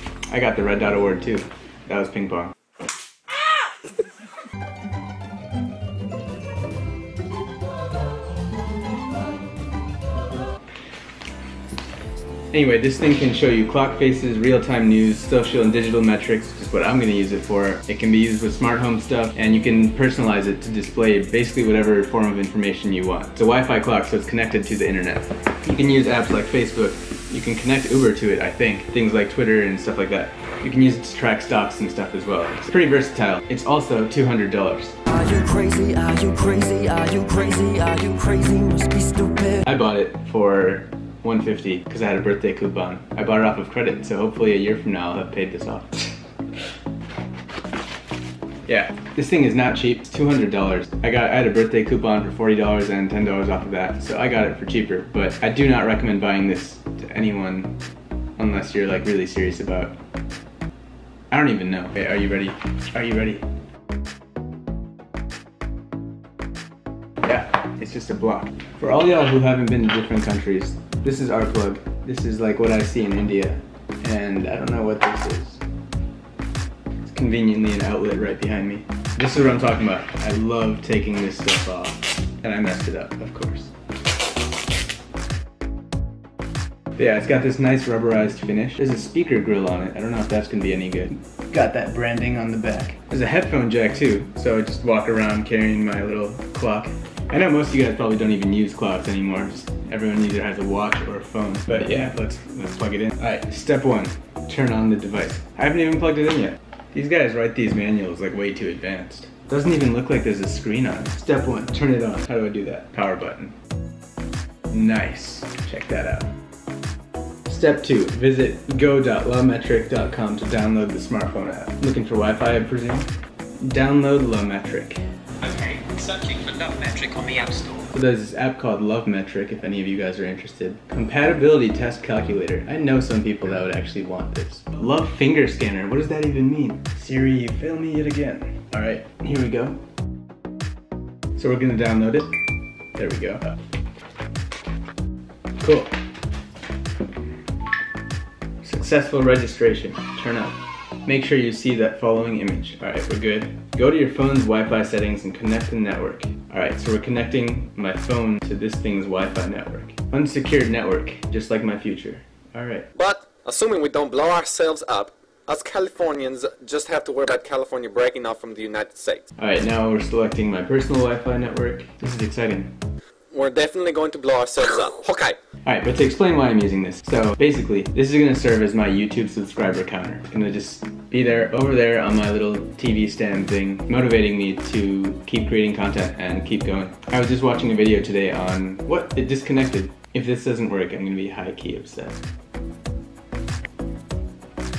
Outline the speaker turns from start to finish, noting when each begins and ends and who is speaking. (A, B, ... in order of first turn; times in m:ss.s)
0:00.3-0:02.5 A
0:12.5-0:35.0 A
0:35.1-0:39.6 B
0:39.6-0:46.2 A
0:48.7-0:57.7 A
0:58.4-1:00.0 A
1:01.3-1:03.4 A
1:07.2-1:15.6 A
1:17.0-1:23.7 A
1:27.0-1:53.6 A
1:54.7-1:56.3 A
1:57.5-2:03.1 A
2:03.6-2:05.0 A
2:05.7-2:07.7 C
2:07.9-2:19.8 A
2:21.4-2:22.3 A
2:23.0-2:23.5 A
2:25.6-2:25.9 A
2:28.6-2:42.9 A
2:43.0-2:49.3 D
2:49.4-2:52.7 A
2:53.3-2:55.4 D
2:55.6-3:12.2 A